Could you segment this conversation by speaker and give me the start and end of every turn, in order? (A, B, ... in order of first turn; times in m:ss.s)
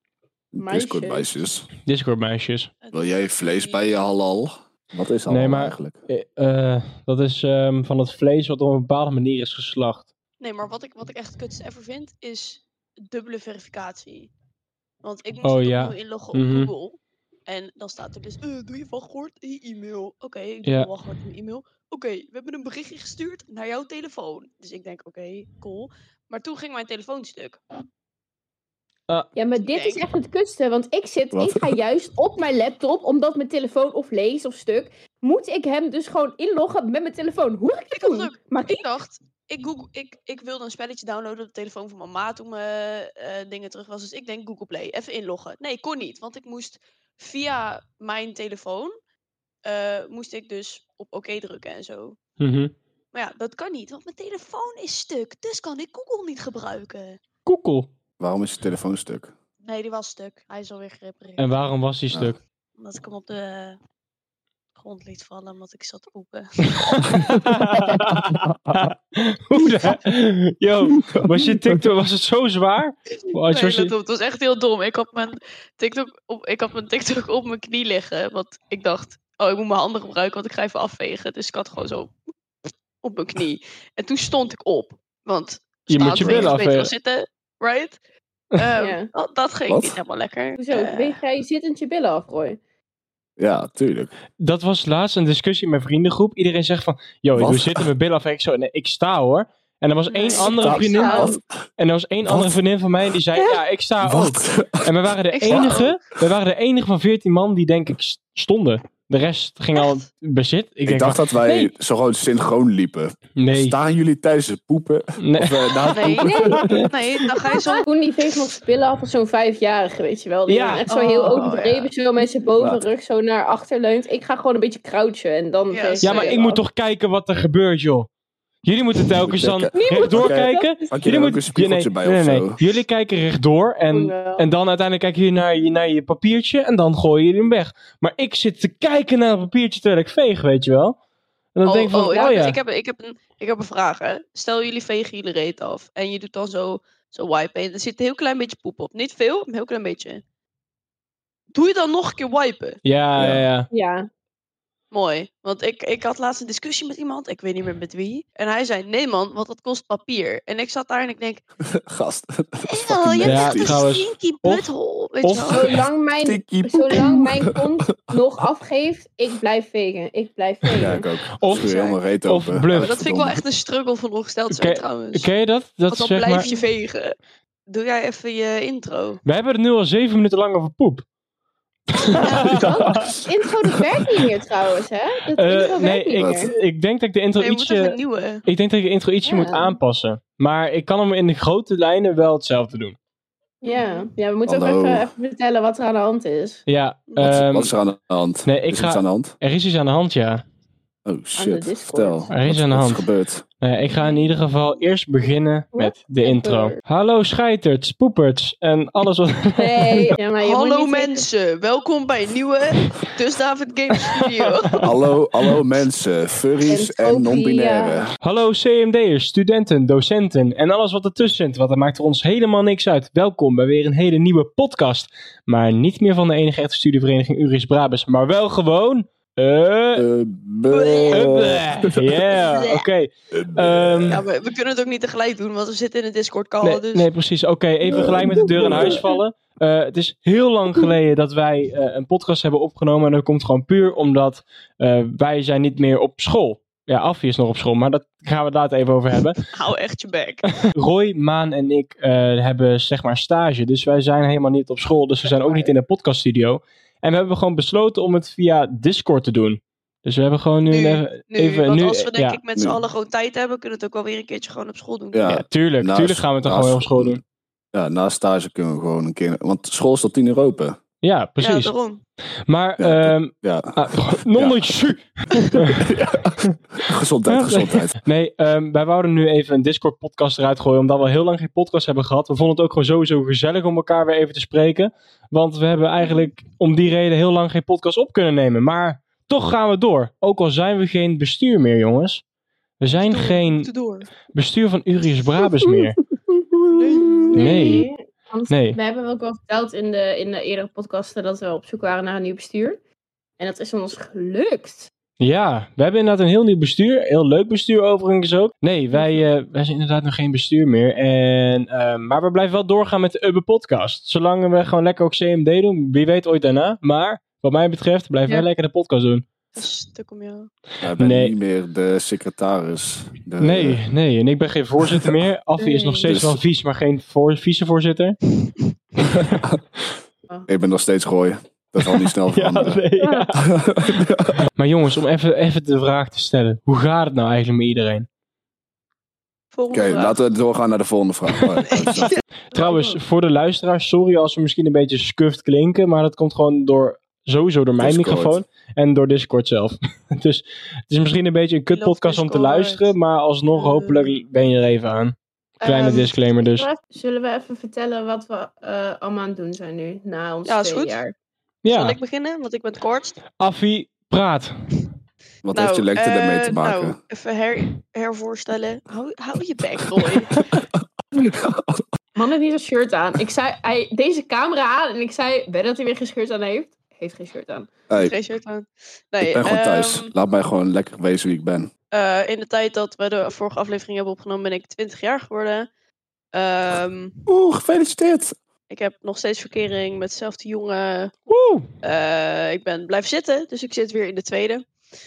0:00.5-0:01.7 A
0:00.6-0:01.3 B
0:01.8-0:02.7 C
0:02.8-0:03.9 D
0:02.9-0:06.0 A
0:05.3-0:10.1 C
0:10.4-0:14.3 D
0:15.0-0:27.6 D
0:15.4-0:16.7 C
0:20.6-0:20.9 C
0:29.3-0:38.8 B
0:29.6-0:30.0 D
0:31.3-0:31.7 A
0:37.9-0:48.9 D
0:49.6-0:52.2 D
0:52.4-0:52.7 C
0:53.1-0:57.2 D
0:57.4-0:57.9 C
0:58.2-0:59.3 A
0:59.6-1:01.5 D
1:01.4-1:02.4 C
1:02.8-1:03.8 D
1:04.8-1:07.3 D
1:06.8-1:13.9 C
1:07.9-1:08.9 A
1:11.0-1:11.8 A
1:13.5-1:22.1 D
1:23.0-1:28.0 D
1:25.9-1:26.9 C
1:26.1-1:26.5 A
1:28.5-1:31.2 D
1:28.8-1:29.1 B
1:29.7-1:30.0 A
1:30.6-1:32.6 B
1:33.4-1:34.1 A
1:34.4-1:51.7 C
1:37.3-1:37.9 A
1:40.1-1:41.4 D
1:40.4-1:41.4 A
1:42.2-1:42.6 A
1:44.0-1:44.9 A
1:45.3-1:46.0 D
1:45.5-1:45.8 A
1:50.8-1:56.9 A
1:53.4-1:53.8 C
1:55.2-1:55.8 C
1:55.9-1:57.8 D
1:56.2-1:56.6 B
1:56.6-1:56.9 C
1:57.5-2:06.6 B
2:00.5-2:00.8 C
2:00.9-2:01.9 D
2:02.6-2:02.8 A
2:05.7-2:06.4 D
2:06.0-2:08.1 C
2:08.6-2:21.0 C
2:09.2-2:12.6 A
2:09.7-2:10.9 B
2:13.9-2:14.4 B
2:21.5-2:22.6 C
2:21.6-2:30.2 D
2:31.5-2:32.8 D
2:32.8-2:33.7 C
2:33.2-2:33.4 A
2:33.7-2:34.1 B
2:34.9-2:41.4 D
2:41.6-2:43.8 A
2:42.6-2:45.7 D
2:43.2-2:44.7 C
2:45.2-2:45.8 C
2:45.4-2:51.1 B
2:46.2-2:47.9 A
2:50.7-2:53.4 A
2:51.4-2:52.9 C
2:51.6-2:51.9 B
2:52.7-2:55.3 D
2:54.5-2:56.4 C
2:55.9-2:57.2 D
2:56.4-2:56.6 B
2:57.7-2:59.2 D
2:59.2-3:01.0 C
3:01.9-3:03.1 C
3:02.2-3:03.4 A
3:02.2-3:06.5 B
3:05.4-3:13.0 C
3:06.2-3:06.5 A
3:07.4-3:08.4 D
3:09.2-3:09.8 B
3:13.6-3:16.6 B
3:13.6-3:14.1 D
3:14.4-3:15.1 A
3:16.7-3:17.7 C
3:17.2-3:19.3 A
3:18.4-3:20.4 C
3:21.0-3:23.4 A
3:21.3-3:22.3 B
3:22.3-3:23.0 C
3:23.6-3:30.1 C
3:25.7-3:26.8 B
3:29.5-3:31.2 B
3:30.4-3:34.9 D
3:34.1-3:34.9 C
3:34.8-3:38.1 A
3:36.6-3:38.0 B
3:38.2-3:50.0 C
3:49.9-3:52.4 A
3:50.7-3:51.4 D
3:51.1-3:54.2 C
3:52.3-3:52.8 D
3:53.3-3:54.2 A
3:54.1-3:57.1 D
3:56.6-4:09.4 C
3:57.9-3:59.0 A
4:09.5-4:10.5 D
4:10.7-4:22.4 C
4:15.2-4:15.7 D
4:20.6-4:25.3 D
4:25.1-4:27.2 A
4:25.2-4:27.2 C
4:27.7-4:30.8 A
4:31.0-4:31.7 C
4:31.4-4:32.0 D
4:32.5-4:35.9 C
4:32.8-4:34.8 A
4:35.5-4:38.0 A
4:37.3-4:52.2 C
4:52.8-4:53.7 C
4:52.9-4:54.1 D
4:54.3-4:56.0 C
4:56.8-4:57.8 D
4:57.3-5:02.8 B
4:57.3-4:57.9 C
4:58.5-4:58.8 C
5:03.4-5:04.9 B
5:05.2-5:19.2 C
5:08.9-5:09.2 B
5:19.5-5:20.5 D
5:20.8-5:23.8 A
5:21.0-5:21.4 C
5:23.4-5:28.2 C
5:24.9-5:25.1 A
5:25.6-5:26.1 B
5:26.0-5:26.4 A
5:29.2-5:29.5 A
5:30.5-5:32.8 A
5:32.3-5:33.4 C
5:33.0-5:33.3 B
5:33.4-5:34.4 A
5:34.5-5:38.1 C
5:39.5-5:40.2 D
5:39.7-5:42.2 A
5:41.7-5:42.2 D
5:42.5-5:56.7 C
5:42.5-5:43.0 B
5:47.8-5:48.4 A
5:51.7-5:52.9 D
5:53.5-5:54.1 D
5:55.6-5:56.1 D
5:55.6-6:01.1 B
6:00.4-6:01.0 D
6:01.6-6:02.0 C
6:01.7-6:03.2 D
6:03.4-6:04.7 C
6:05.4-6:07.0 A
6:05.5-6:10.4 D
6:11.1-6:11.8 A
6:12.2-6:17.7 B
6:18.0-6:20.1 D
6:19.2-6:21.7 A
6:21.9-6:25.7 D
6:26.3-6:27.2 D
6:27.3-6:28.4 A
6:28.7-6:31.2 D
6:31.3-6:31.6 C
6:31.8-6:34.6 D